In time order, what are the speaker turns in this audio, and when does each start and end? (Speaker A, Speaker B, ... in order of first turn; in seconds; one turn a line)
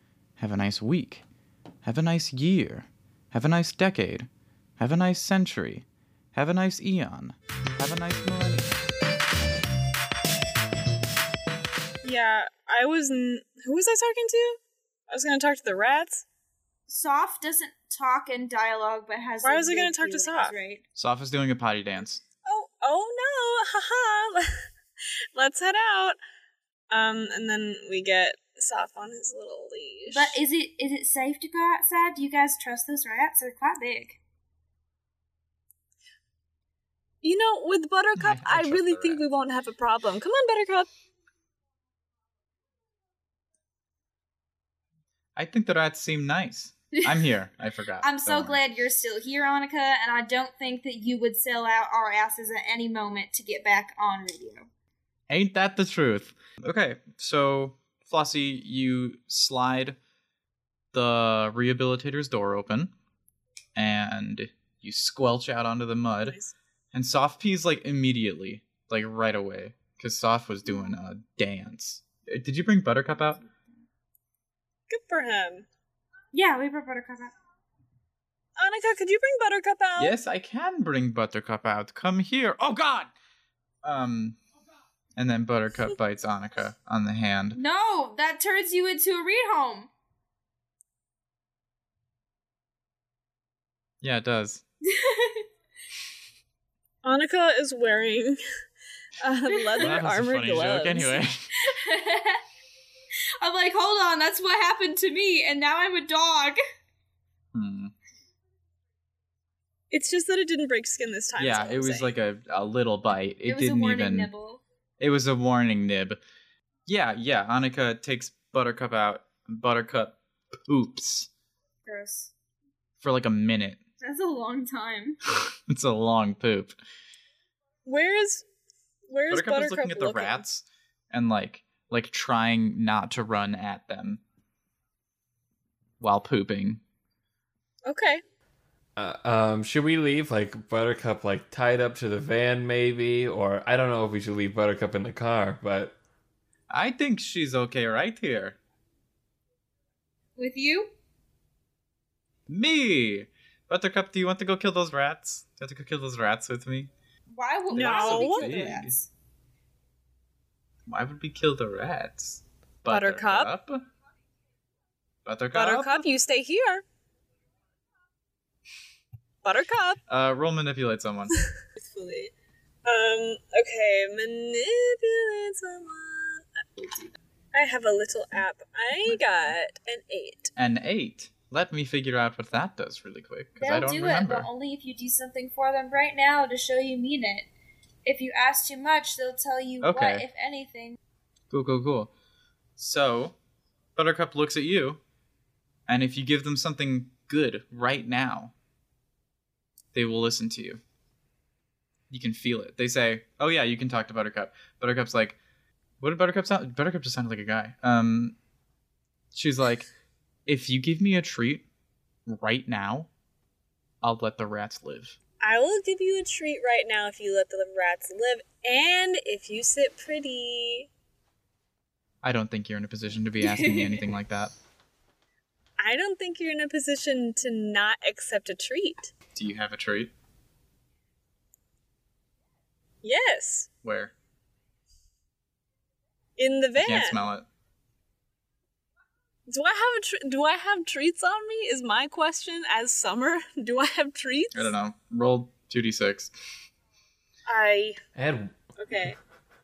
Speaker A: 0.4-1.2
Speaker A: 1.8-4.3
Speaker A: 4.8-8.8
Speaker B: 12.0-16.2
Speaker C: 16.9-20.8
Speaker B: 19.4-20.5
Speaker A: 20.9-22.2
Speaker B: 22.4-24.7
Speaker B: 25.3-26.2
Speaker B: 26.9-30.4
Speaker C: 30.1-34.2
Speaker B: 37.2-40.9
Speaker A: 38.1-39.2
Speaker A: 45.4-48.6
Speaker C: 46.9-47.2
Speaker C: 48.0-54.7
Speaker A: 55.3-60.0
Speaker A: 60.9-62.9
Speaker A: 63.8-66.4
Speaker B: 66.2-66.5
Speaker A: 66.9-73.4
Speaker B: 74.9-75.7
Speaker C: 76.3-77.3
Speaker B: 78.6-80.1
Speaker A: 80.0-83.1
Speaker A: 83.8-84.4
Speaker A: 85.2-87.6
Speaker C: 87.5-89.9
Speaker A: 94.0-94.6
Speaker C: 94.8-95.4
Speaker B: 97.0-98.4
Speaker B: 99.2-101.2
Speaker A: 99.8-101.4
Speaker C: 101.6-102.4
Speaker C: 103.4-106.6
Speaker A: 107.5-107.9
Speaker B: 109.9-112.1
Speaker A: 111.4-114.3
Speaker C: 113.5-114.6
Speaker A: 115.0-116.2
Speaker A: 116.9-121.3
Speaker C: 121.8-122.3
Speaker A: 123.0-123.8
Speaker C: 124.0-125.2
Speaker A: 125.7-126.8
Speaker B: 127.8-128.4
Speaker B: 129.1-130.4
Speaker A: 129.3-134.2
Speaker A: 136.0-136.8
Speaker B: 137.8-138.2
Speaker D: 139.0-145.9
Speaker A: 146.7-148.6
Speaker C: 150.3-150.9
Speaker A: 152.5-156.9
Speaker C: 157.3-159.1
Speaker B: 157.7-158.5
Speaker A: 157.7-158.9
Speaker A: 160.9-163.8
Speaker B: 162.9-163.5
Speaker A: 165.2-166.0
Speaker B: 165.5-166.8
Speaker B: 169.4-170.0
Speaker A: 170.1-171.4
Speaker B: 171.3-172.3
Speaker B: 172.8-180.5
Speaker A: 179.0-179.5
Speaker A: 180.6-184.5
Speaker C: 183.6-187.5
Speaker C: 188.0-191.0
Speaker A: 189.8-190.2
Speaker A: 191.5-192.1
Speaker A: 192.8-193.3
Speaker A: 193.9-195.0
Speaker A: 195.9-198.5
Speaker A: 199.9-200.8
Speaker A: 202.1-205.4
Speaker A: 206.0-208.3
Speaker A: 209.3-209.9
Speaker A: 210.5-211.7
Speaker A: 212.3-213.1
Speaker A: 214.0-215.2
Speaker B: 215.4-220.9
Speaker A: 222.2-224.5
Speaker C: 223.4-224.1
Speaker B: 225.8-229.1
Speaker A: 229.3-230.1
Speaker B: 233.0-233.7
Speaker A: 233.8-234.1
Speaker B: 236.4-237.2
Speaker A: 236.8-237.4
Speaker B: 239.5-244.7
Speaker A: 244.5-246.3
Speaker B: 247.5-248.0
Speaker D: 248.2-248.6
Speaker B: 248.8-249.2